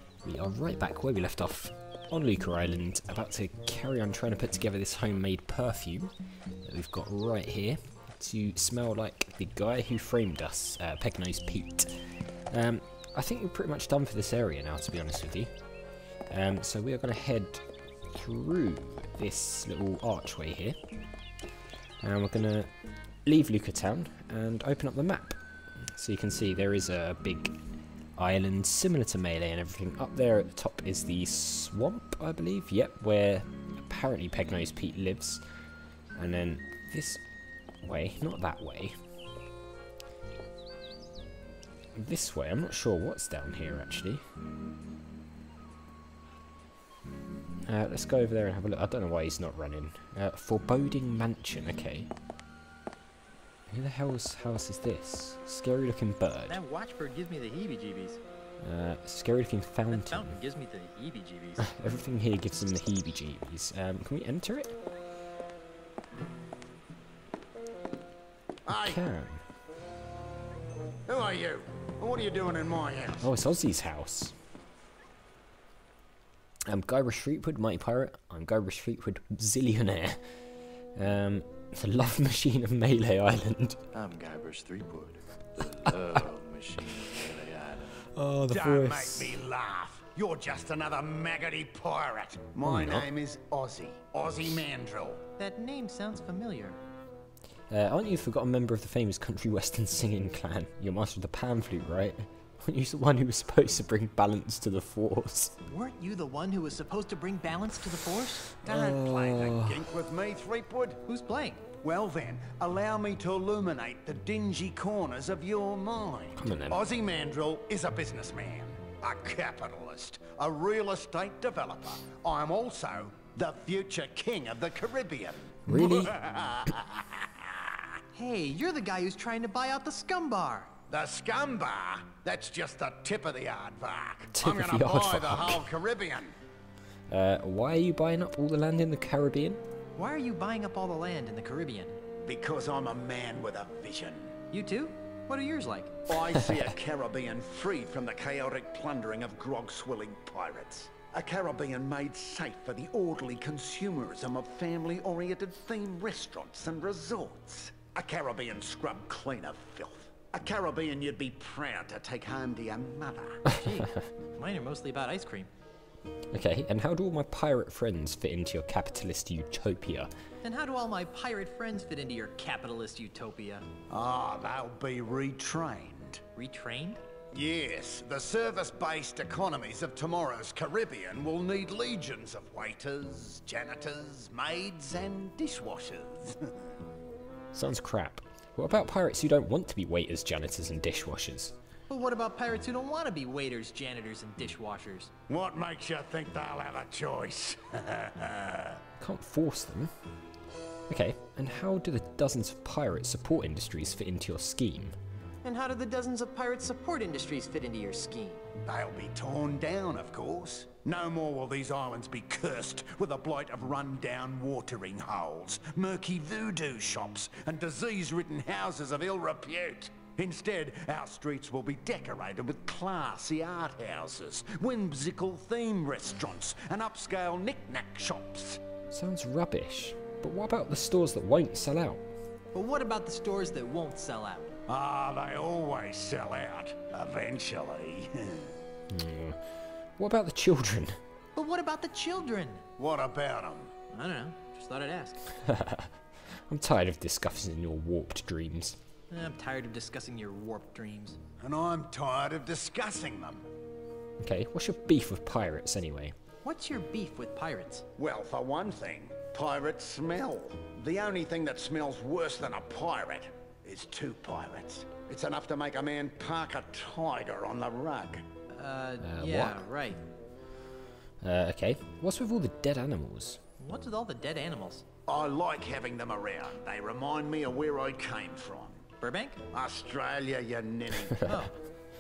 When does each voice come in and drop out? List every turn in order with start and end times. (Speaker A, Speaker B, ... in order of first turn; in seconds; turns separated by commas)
Speaker A: 0.2-6.1, Speaker A: 6.6-15.5, Speaker A: 16.3-20.8, Speaker A: 22.0-22.7, Speaker A: 23.2-27.6, Speaker A: 28.2-35.4, Speaker A: 36.2-37.2, Speaker A: 37.8-39.0, Speaker A: 42.0-44.2, Speaker A: 47.7-52.1, Speaker A: 53.7-56.6, Speaker B: 56.5-58.2, Speaker A: 58.6-60.4, Speaker B: 59.9-61.7, Speaker A: 61.6-64.8, Speaker C: 68.7-69.0, Speaker A: 68.7-69.4, Speaker C: 71.1-73.3, Speaker A: 73.2-74.3, Speaker A: 76.7-80.4, Speaker A: 81.0-83.8, Speaker D: 83.9-88.0, Speaker A: 85.8-86.3, Speaker A: 88.1-89.4, Speaker C: 88.5-95.2, Speaker A: 92.6-93.1, Speaker B: 95.4-96.8, Speaker A: 97.7-105.6, Speaker B: 105.7-108.5, Speaker A: 108.6-109.8, Speaker C: 108.6-111.0, Speaker B: 111.1-111.6, Speaker C: 111.8-127.7, Speaker A: 116.4-116.8, Speaker A: 125.7-126.2, Speaker B: 128.1-130.7, Speaker C: 130.9-136.4, Speaker A: 134.3-135.7, Speaker A: 137.1-139.6, Speaker B: 140.0-142.0, Speaker C: 142.2-144.4, Speaker B: 144.5-146.0, Speaker C: 146.1-163.4, Speaker A: 146.4-146.7, Speaker B: 163.5-165.5, Speaker A: 166.3-170.1, Speaker B: 170.4-173.7, Speaker C: 173.9-176.2, Speaker B: 176.4-177.0, Speaker C: 177.3-186.7, Speaker A: 187.5-191.6, Speaker B: 191.9-195.1, Speaker C: 195.3-198.8, Speaker A: 199.0-199.9, Speaker A: 200.9-205.0, Speaker B: 205.4-208.4, Speaker C: 208.7-228.6, Speaker A: 228.9-232.1, Speaker B: 232.5-234.6, Speaker C: 234.7-238.5, Speaker A: 238.9-241.0, Speaker B: 241.3-242.6, Speaker C: 242.8-243.7, Speaker B: 243.9-245.2, Speaker A: 245.4-248.8, Speaker B: 249.1-251.2, Speaker C: 251.4-253.5, Speaker A: 254.2-256.1, Speaker B: 256.4-257.9, Speaker C: 258.0-268.2, Speaker B: 268.5-270.0, Speaker A: 269.0-269.6, Speaker A: 271.2-273.4, Speaker B: 273.6-274.8, Speaker C: 275.1-278.8, Speaker B: 279.0-279.4, Speaker C: 279.5-281.3, Speaker A: 281.1-281.5, Speaker B: 281.3-281.5